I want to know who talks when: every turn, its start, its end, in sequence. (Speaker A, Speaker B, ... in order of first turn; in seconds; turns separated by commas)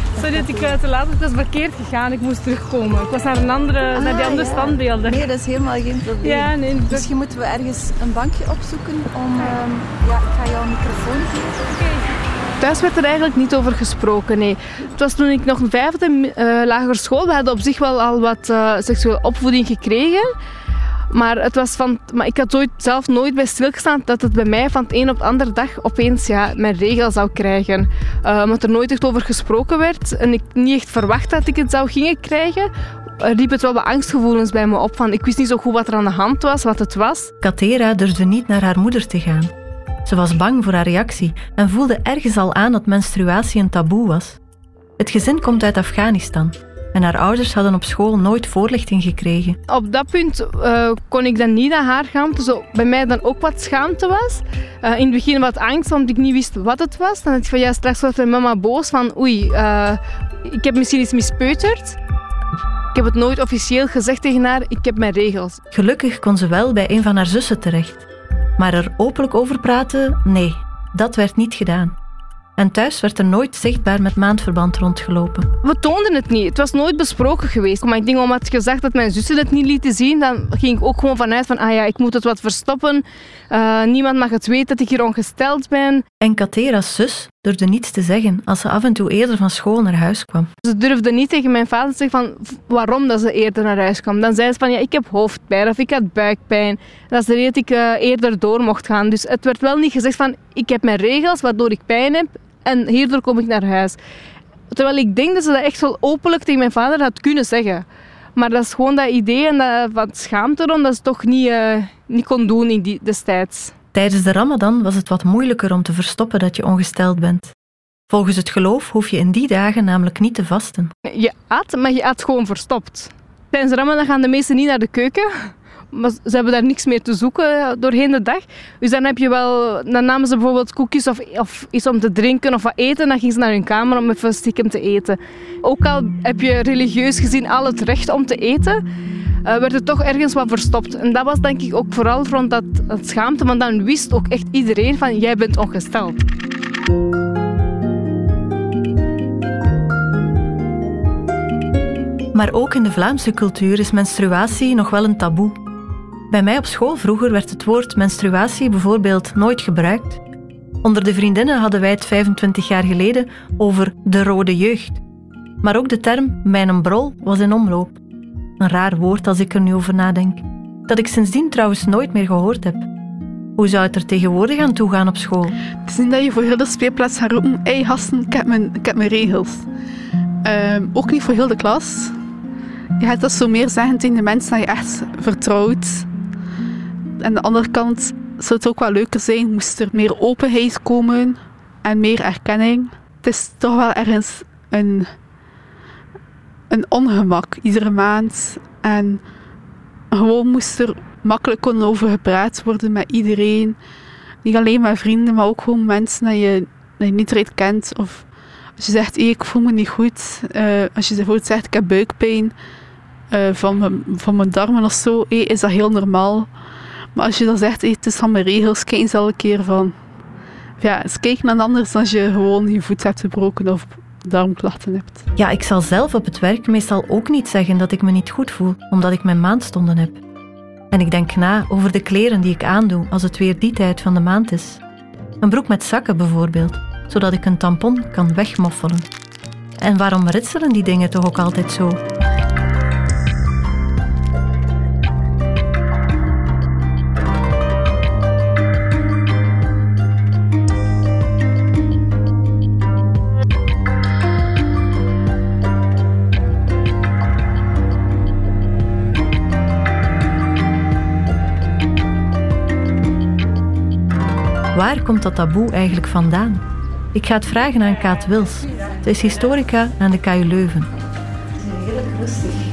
Speaker A: 0.2-0.8, Speaker B: 0.2-5.3, Speaker A: 4.0-11.6, Speaker B: 6.2-7.1, Speaker B: 12.6-20.3, Speaker B: 21.1-37.3, Speaker C: 37.4-39.5, Speaker C: 40.0-44.4, Speaker C: 45.0-49.6, Speaker B: 49.7-62.0, Speaker B: 62.9-65.6, Speaker C: 65.7-68.1, Speaker C: 68.6-72.0, Speaker C: 72.6-75.5, Speaker B: 75.6-86.0, Speaker C: 86.2-90.5, Speaker B: 90.7-104.0, Speaker B: 104.7-107.8, Speaker B: 108.4-113.7, Speaker C: 113.9-117.5, Speaker C: 118.1-120.9, Speaker B: 121.1-138.8, Speaker B: 139.4-146.2, Speaker C: 152.3-155.6, Speaker C: 156.3-160.2, Speaker C: 160.8-165.0, Speaker C: 165.6-168.0, Speaker C: 168.6-172.9, Speaker C: 173.6-175.6, Speaker D: 175.9-179.7, Speaker D: 180.4-182.2, Speaker D: 183.0-186.1, Speaker D: 187.2-195.1, Speaker D: 196.7-199.2, Speaker D: 200.1-203.8, Speaker D: 204.4-208.3, Speaker D: 208.8-212.5, Speaker D: 213.3-216.5, Speaker D: 217.2-219.9, Speaker D: 220.8-225.2, Speaker C: 225.4-230.2, Speaker C: 230.9-234.8, Speaker C: 235.4-239.1, Speaker C: 239.8-242.0, Speaker C: 264.7-266.6, Speaker C: 267.1-270.9, Speaker A: 271.8-272.5